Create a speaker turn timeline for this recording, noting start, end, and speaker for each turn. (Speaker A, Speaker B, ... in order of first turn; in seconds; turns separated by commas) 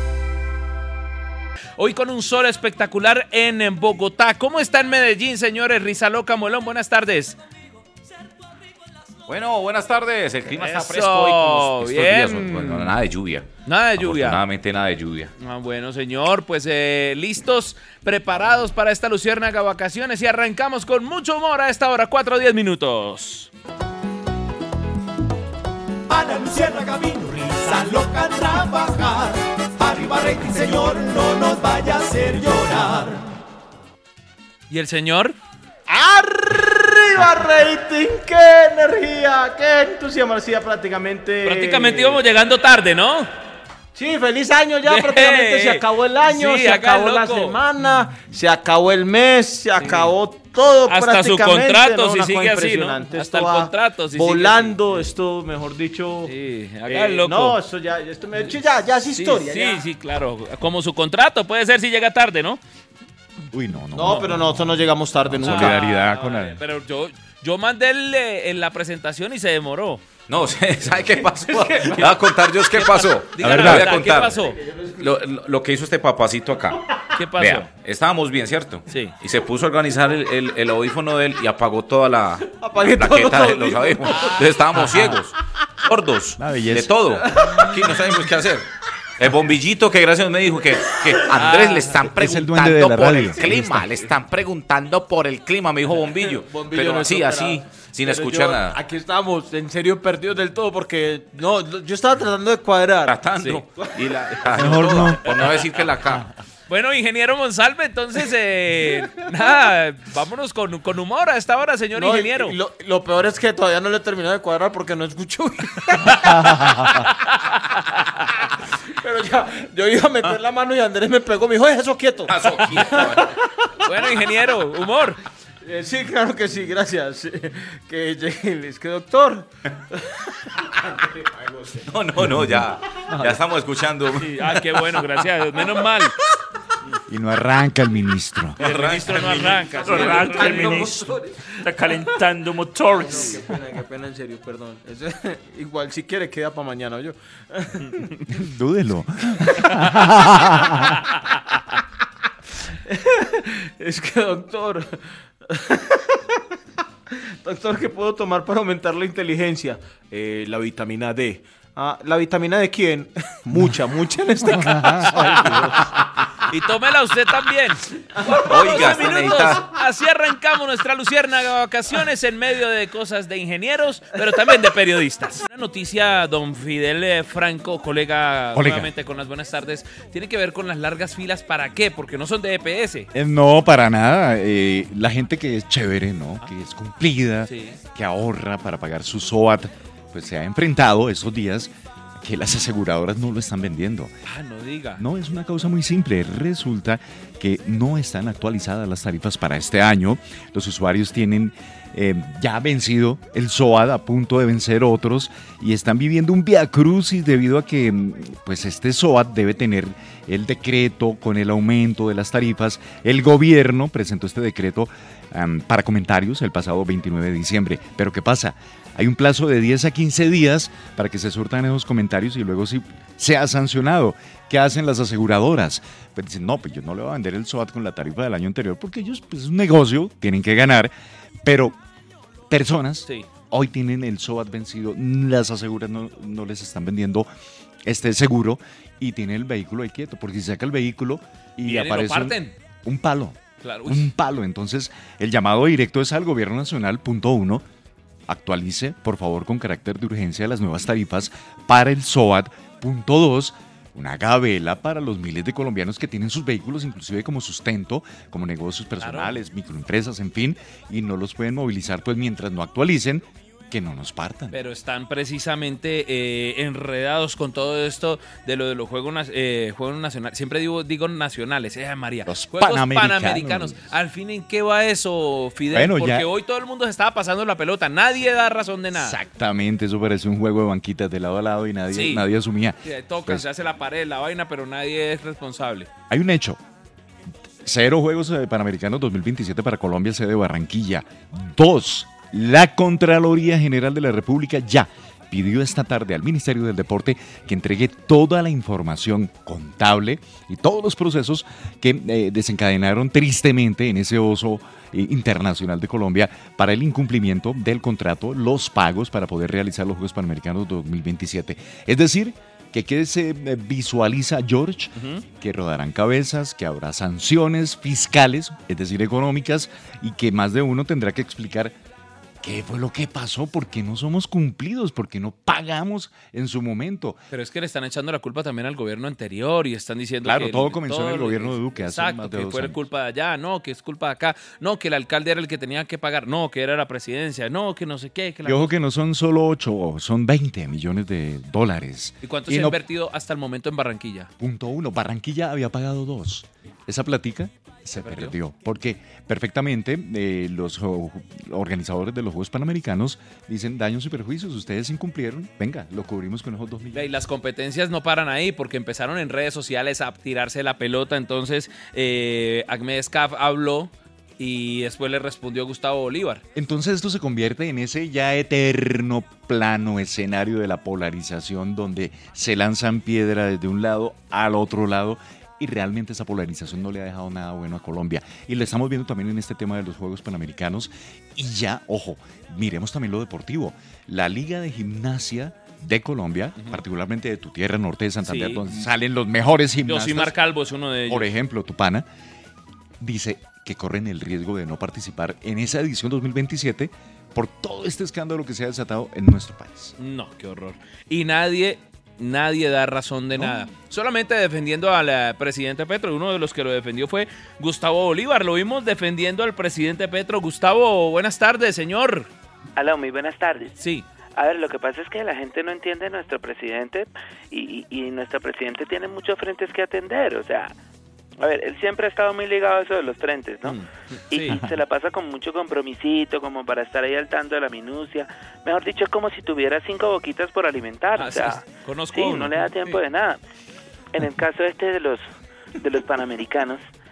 Speaker A: 1.8-7.4, Speaker B: 9.3-15.3, Speaker A: 10.6-12.9, Speaker A: 13.7-14.4, Speaker A: 15.4-23.5, Speaker C: 26.1-33.3, Speaker A: 34.7-35.4, Speaker D: 35.9-42.2, Speaker A: 41.4-43.3, Speaker D: 43.9-56.3, Speaker A: 44.9-47.6, Speaker A: 49.8-50.1, Speaker A: 50.9-55.0, Speaker A: 56.2-57.6, Speaker D: 56.9-59.8, Speaker A: 59.1-62.6, Speaker E: 63.5-64.7, Speaker D: 63.9-66.4, Speaker A: 64.0-64.2, Speaker E: 65.2-66.5, Speaker A: 65.4-70.0, Speaker B: 70.3-74.4, Speaker A: 71.8-74.6, Speaker E: 73.4-73.9, Speaker D: 73.9-75.0, Speaker B: 75.0-76.8, Speaker A: 77.2-77.7, Speaker B: 77.4-85.3, Speaker A: 78.9-79.2, Speaker D: 82.4-85.2, Speaker A: 84.1-84.5, Speaker B: 85.8-88.7, Speaker E: 86.4-87.0, Speaker D: 87.2-88.1, Speaker B: 89.2-98.8, Speaker A: 91.3-91.9, Speaker E: 92.0-93.9, Speaker D: 96.3-105.1, Speaker B: 103.0-106.2, Speaker E: 104.5-105.2, Speaker A: 105.2-105.8, Speaker A: 106.7-112.5, Speaker D: 111.9-117.1, Speaker D: 119.0-123.3, Speaker B: 122.3-123.3, Speaker A: 123.8-125.2, Speaker D: 125.6-129.5, Speaker D: 130.8-131.8, Speaker B: 131.8-134.4, Speaker D: 133.1-133.4, Speaker A: 134.2-136.1, Speaker E: 137.1-138.6, Speaker A: 138.6-140.9, Speaker B: 138.6-141.1, Speaker D: 139.8-141.7, Speaker C: 141.7-143.1, Speaker D: 143.0-148.0, Speaker A: 143.1-143.3, Speaker E: 148.3-150.0, Speaker D: 149.8-151.0, Speaker D: 152.9-156.0, Speaker D: 157.4-165.9, Speaker A: 164.8-165.7, Speaker A: 166.5-183.1, Speaker B: 168.3-169.6, Speaker E: 178.5-178.9, Speaker E: 183.1-194.1, Speaker A: 187.5-187.8, Speaker A: 194.2-195.0, Speaker E: 195.0-230.9, Speaker E: 231.4-231.8, Speaker E: 232.5-237.3, Speaker E: 237.8-247.6, Speaker A: 241.6-242.5, Speaker A: 243.6-244.1, Speaker E: 248.3-264.5, Speaker A: 259.0-259.4, Speaker A: 264.5-279.2, Speaker E: 272.3-273.8, Speaker E: 275.7-276.3, Speaker E: 278.9-283.4, Speaker A: 281.9-282.2, Speaker A: 282.8-285.9, Speaker E: 286.1-286.6, Speaker E: 287.6-321.8, Speaker A: 314.9-315.2, Speaker E: 322.4-327.2, Speaker A: 327.3-338.7, Speaker E: 330.2-332.8, Speaker E: 338.4-342.8, Speaker A: 342.2-344.3, Speaker E: 344.4-357.1, Speaker A: 348.0-348.3, Speaker A: 356.9-366.4, Speaker E: 366.5-390.4, Speaker A: 388.2-388.8, Speaker A: 389.9-391.3, Speaker E: 391.1-392.1, Speaker E: 393.0-399.9, Speaker A: 400.0-412.3, Speaker F: 412.8-413.7, Speaker A: 413.8-414.1, Speaker F: 414.4-420.7, Speaker F: 421.4-423.8, Speaker A: 423.6-424.6, Speaker F: 424.3-433.4, Speaker A: 431.1-433.0, Speaker F: 434.1-435.2, Speaker F: 435.8-436.8